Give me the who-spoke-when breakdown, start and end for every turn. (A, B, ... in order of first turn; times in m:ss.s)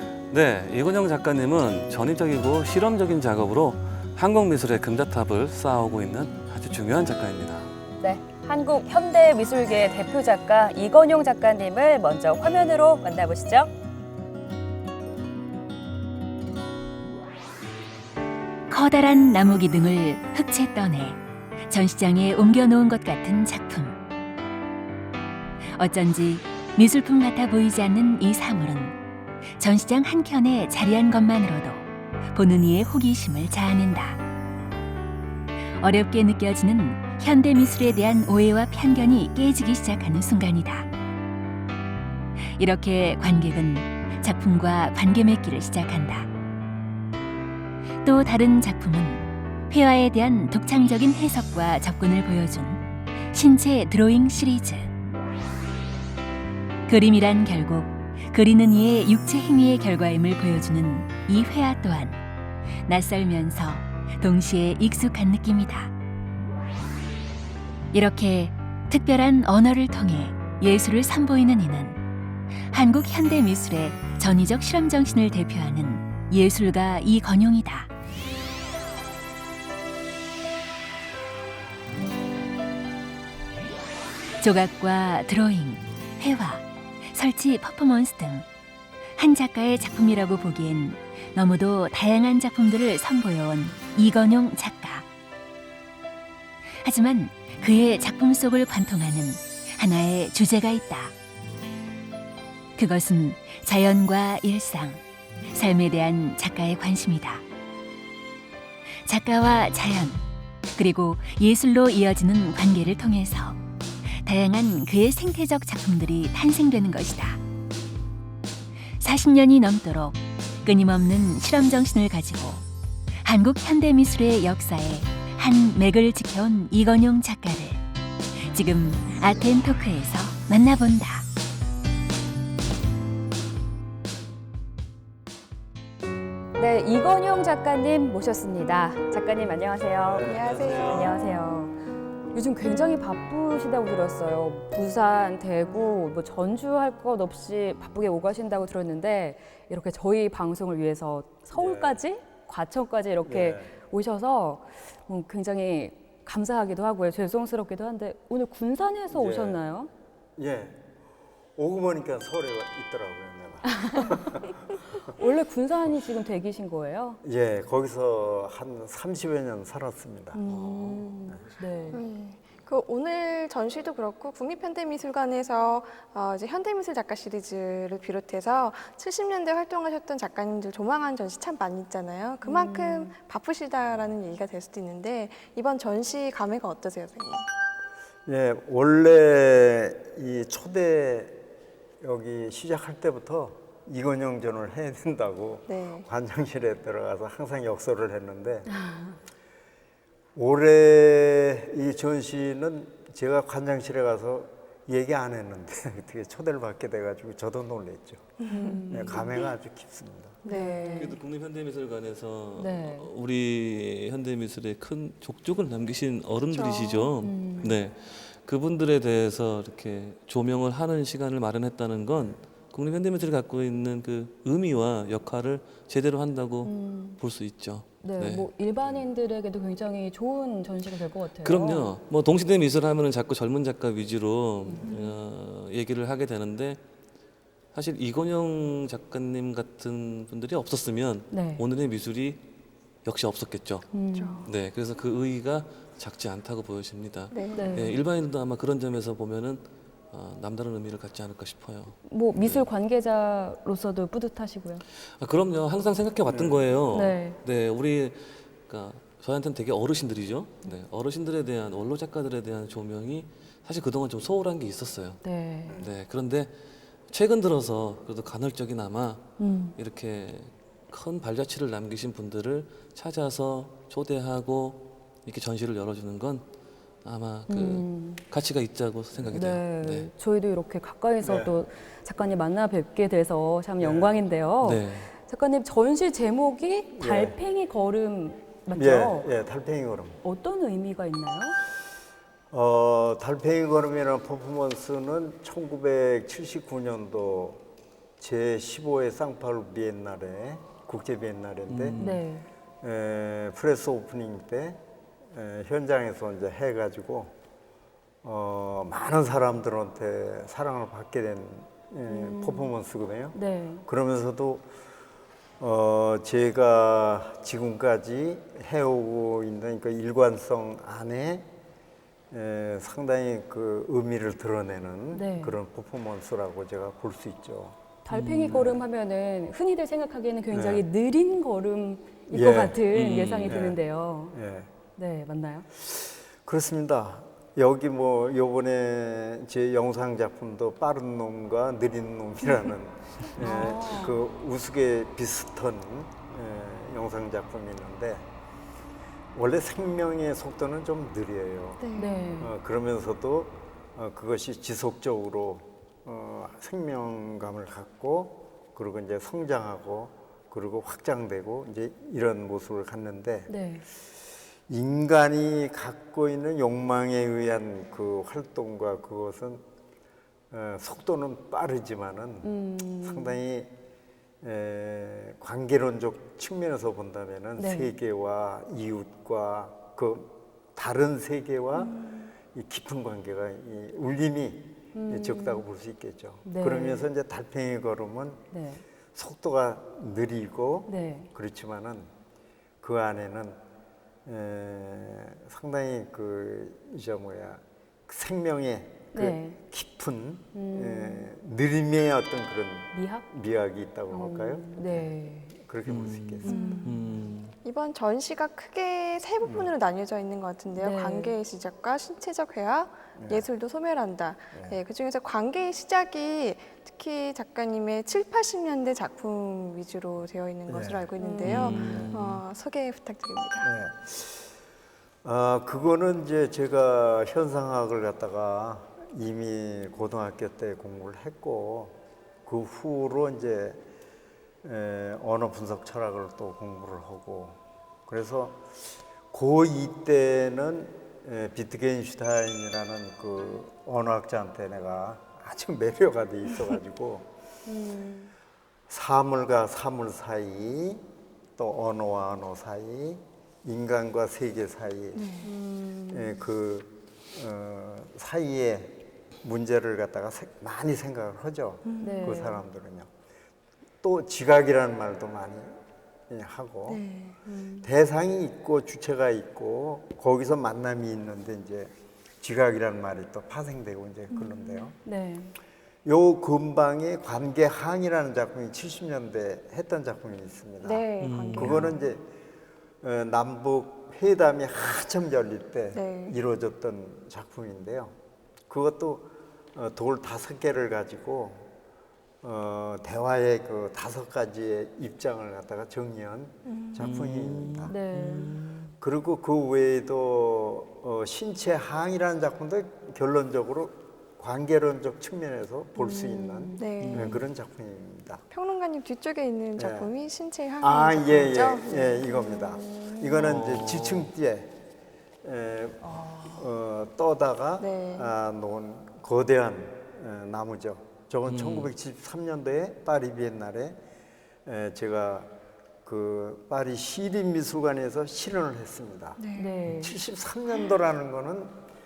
0:00.3-0:07.7 A
0:08.0-0:13.7 B
0:18.7-0:21.2 C
0:21.7-0:24.0 C
0:25.7-0:28.9 C
0:29.6-0:34.2 C
0:35.8-0:40.9 C
0:42.6-0:46.2 C
0:48.0-0:54.9 C
0:56.9-1:02.2 C
1:02.8-1:05.9 C
1:07.9-1:12.0 C
1:12.7-1:17.9 C
1:24.4-1:28.4 C
1:29.2-1:35.0 C
1:36.8-1:41.1 C
1:42.8-1:45.0 C
1:45.5-1:47.4 C
1:49.0-1:50.2 C
1:50.7-1:53.6 C
1:54.2-1:57.4 C
1:59.0-2:02.6 C
2:03.2-2:07.8 C
2:08.5-2:11.2 C
2:16.6-2:21.7 B
2:20.0-2:21.1 A
2:20.2-2:21.3 D
2:22.3-2:39.9 B
2:31.5-2:32.0 E
2:33.2-2:33.7 E
2:39.1-2:39.6 E
2:40.4-2:40.8 E
2:41.6-2:44.4 E
2:43.6-2:47.2 B
2:47.2-2:50.4 E
2:50.3-2:52.0 B
2:50.4-2:52.0 A
2:51.9-3:07.5 D
3:02.4-3:03.1 B
3:08.2-3:11.4 E
3:12.0-3:18.7 E
3:15.7-3:16.1 D
3:18.6-3:19.2 B
3:20.3-3:30.4 E
3:28.4-3:28.8 D
3:28.5-3:29.4 B
3:30.4-3:31.2 D
3:30.4-3:31.2 B
3:30.9-3:49.0 A
3:32.6-3:33.1 B
3:36.5-3:37.1 D
3:37.2-3:37.8 B
3:46.6-3:47.2 B
3:48.0-3:51.9 B
3:51.4-3:56.8 A
3:54.6-3:54.9 B
3:54.8-3:55.1 D
3:57.7-4:02.4 A
4:01.3-4:01.6 B
4:03.0-4:03.9 A
4:03.9-4:04.5 B
4:04.1-4:04.5 D
4:04.4-4:12.6 A
4:07.3-4:08.0 D
4:07.5-4:08.0 B
4:12.0-4:14.8 B
4:15.2-4:26.5 A
4:16.3-4:16.7 E
4:16.9-4:17.4 B
4:25.2-4:25.8 B
4:27.1-4:36.4 A
4:29.4-4:29.8 B
4:37.0-4:40.1 A
4:37.5-4:38.2 B
4:39.3-4:49.3 B
4:41.2-4:41.5 E
4:43.8-4:44.2 E
4:44.6-4:45.1 A
4:46.9-4:47.4 E
4:48.7-4:50.2 E
4:50.2-4:51.6 B
4:52.5-4:57.6 E
4:58.2-5:02.0 E
5:01.7-5:02.2 A
5:02.0-5:02.5 B
5:02.8-5:07.3 E
5:08.2-5:14.7 E
5:12.1-5:12.7 B
5:13.3-5:13.8 B
5:15.6-5:21.5 E
5:22.3-5:27.8 E
5:25.1-5:25.6 B
5:28.0-5:34.4 B
5:28.1-5:28.6 A
5:28.5-5:28.8 E
5:30.5-5:30.8 E
5:32.3-5:32.8 E
5:32.9-5:33.6 A
5:33.4-5:34.7 E
5:35.0-5:35.7 B
5:35.9-5:48.3 E
5:43.4-5:44.2 B
5:49.3-6:03.5 E
5:51.8-5:52.3 D
5:51.9-5:52.5 B
6:03.5-6:03.8 B
6:04.7-6:09.6 E
6:10.5-6:13.7 E
6:12.4-6:13.4 B
6:14.4-6:22.0 E
6:17.6-6:17.9 B
6:22.5-6:28.4 E
6:24.9-6:25.6 B
6:26.4-6:27.0 B
6:28.5-6:28.8 B
6:29.1-6:32.1 E
6:30.9-6:31.3 B
6:32.8-6:33.6 E
6:34.2-6:46.5 E
6:39.1-6:39.6 B
6:40.5-6:41.3 B
6:42.9-6:43.3 B
6:44.1-6:45.5 B
6:45.8-6:47.5 A
6:46.4-6:47.0 B
6:46.5-6:46.9 D
6:47.6-7:03.7 D
6:49.4-6:49.7 E
6:50.8-6:51.3 B
6:53.1-6:53.5 E
6:54.5-6:54.8 E
7:00.7-7:01.1 E
7:01.2-7:02.0 B
7:01.4-7:02.4 A
7:03.6-7:04.5 E
7:05.2-7:13.8 E
7:14.6-7:18.7 E
7:19.3-7:27.3 E
7:27.6-7:28.3 B
7:28.9-7:31.0 E
7:31.6-7:35.3 E
7:35.1-7:35.5 D
7:35.4-7:36.4 B
7:36.1-7:43.1 E
7:41.8-7:42.3 D
7:42.0-7:42.6 B
7:44.0-7:45.8 E
7:46.3-7:47.0 E
7:46.9-7:47.4 D
7:47.4-7:47.9 B
7:47.8-7:55.0 E
7:54.3-7:54.9 D
7:55.0-7:55.5 B
7:56.0-8:02.2 E
8:00.8-8:02.0 D
8:01.2-8:01.8 A
8:03.0-8:08.1 E
8:05.9-8:06.4 D
8:08.7-8:11.7 E
8:12.4-8:17.9 E
8:16.7-8:17.0 D
8:17.0-8:18.9 A
8:17.9-8:18.6 B
8:19.0-8:28.4 E
8:26.0-8:26.9 B
8:26.7-8:27.3 D
8:27.0-8:27.4 A
8:28.5-8:32.8 D
8:29.8-8:30.1 E
8:30.8-8:34.7 E
8:33.4-8:34.3 A
8:35.4-8:44.0 E
8:36.0-8:36.6 B
8:37.8-8:38.3 D
8:41.4-8:41.9 A
8:44.6-8:45.5 E
8:46.0-8:51.8 E
8:49.4-8:49.8 D
8:49.6-8:50.2 B